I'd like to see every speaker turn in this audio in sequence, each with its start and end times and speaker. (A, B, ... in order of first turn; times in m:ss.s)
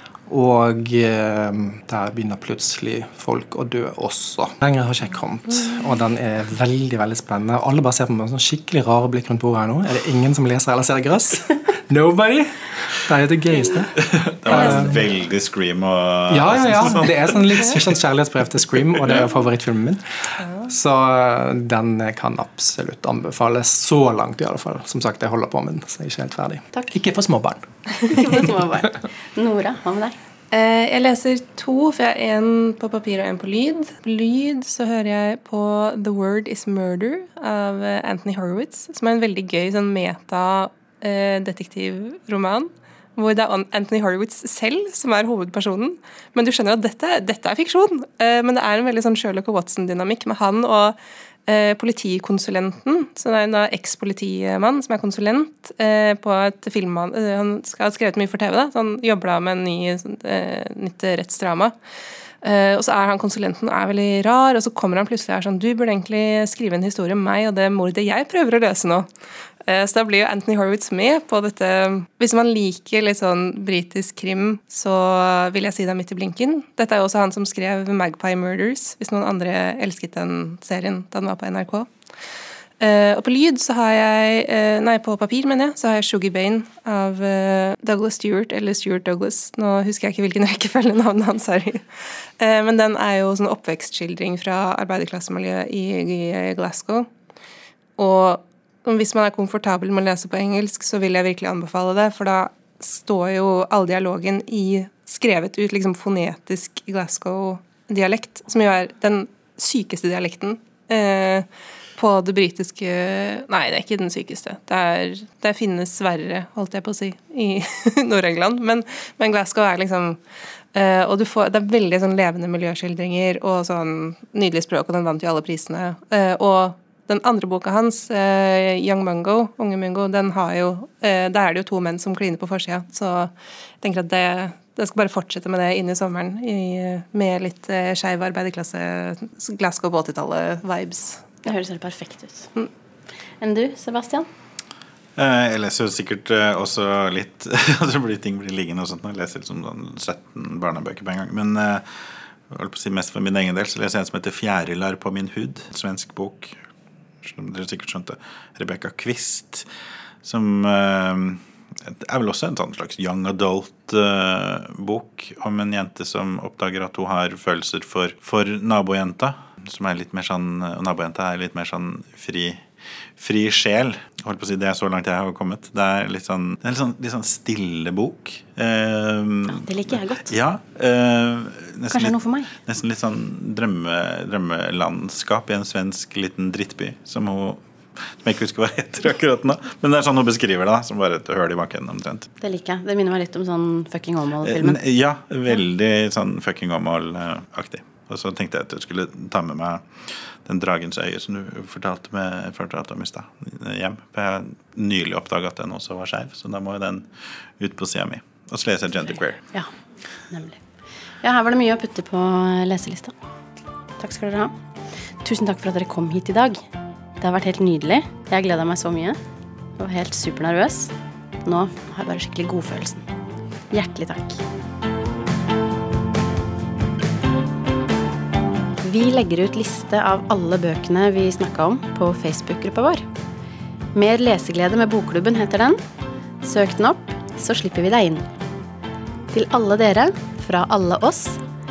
0:00.3-0:15.1 A
0:14.0-0:17.9 B
0:14.5-0:14.8 C
0:16.3-0:27.6 A
0:28.0-0:30.2 C
0:30.5-0:51.0 D
0:51.5-1:01.7 D
1:02.4-1:09.1 D
1:09.6-1:21.9 D
1:22.8-1:37.1 D
1:38.0-2:00.2 D
2:00.7-2:21.4 D
2:21.4-2:22.5 C
2:23.4-2:24.3 C
2:25.2-2:31.9 B
2:32.5-2:36.6 B
2:37.2-2:39.7 B
2:40.2-2:52.6 B
2:53.2-3:12.3 B
2:59.5-3:00.3 C
3:01.9-3:02.5 C
3:12.4-3:14.8 C
3:14.4-3:29.4 B
3:30.3-3:30.6 C
3:31.2-3:33.1 C
3:34.0-3:34.5 C
3:35.2-3:36.6 C
3:37.2-3:39.2 C
3:39.8-3:40.9 C
3:41.4-3:43.0 C
3:43.7-3:44.4 C
3:48.8-3:53.1 C
3:53.9-3:55.8 C
3:56.4-3:58.3 C
3:59.3-4:01.4 C